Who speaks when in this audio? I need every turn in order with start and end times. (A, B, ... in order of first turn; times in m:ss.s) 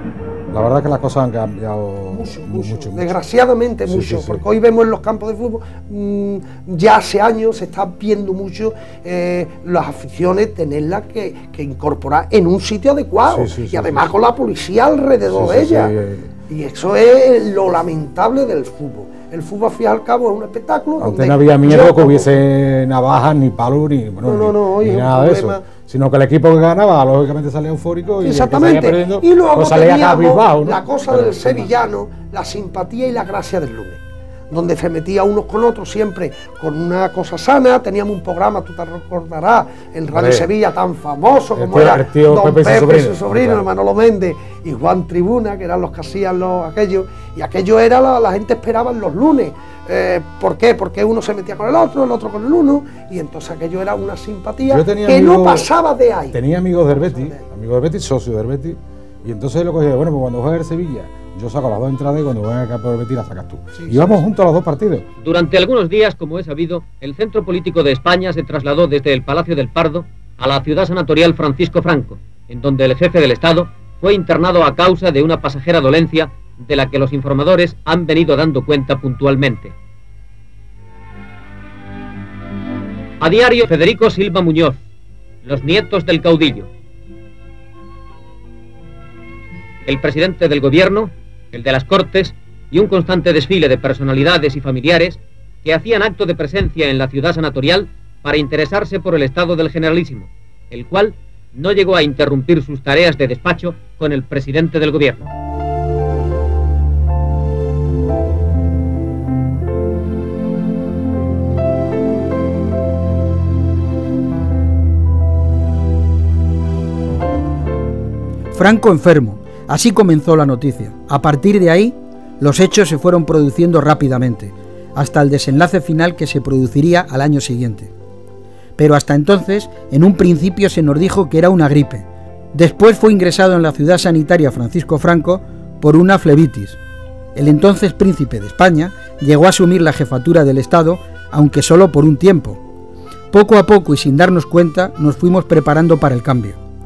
0:00.5-0:03.1 A
0:02.1-0:16.0 B
0:03.9-0:04.4 A
0:13.3-0:14.1 A
0:15.2-0:16.3 A
0:16.5-0:22.3 B
0:21.0-0:31.7 A
0:24.2-0:25.6 B
0:28.2-0:56.4 B
0:40.1-0:40.5 A
0:41.6-0:43.6 A
0:54.7-0:55.7 A
0:56.3-1:05.1 A
0:56.9-0:57.4 B
1:03.7-1:04.2 B
1:05.2-1:19.7 C
1:23.2-1:24.8 C
1:25.4-1:26.7 C
1:29.8-1:45.3 C
1:58.5-2:07.9 D
2:08.8-2:16.8 D
2:17.3-2:22.6 D
2:23.3-2:26.6 D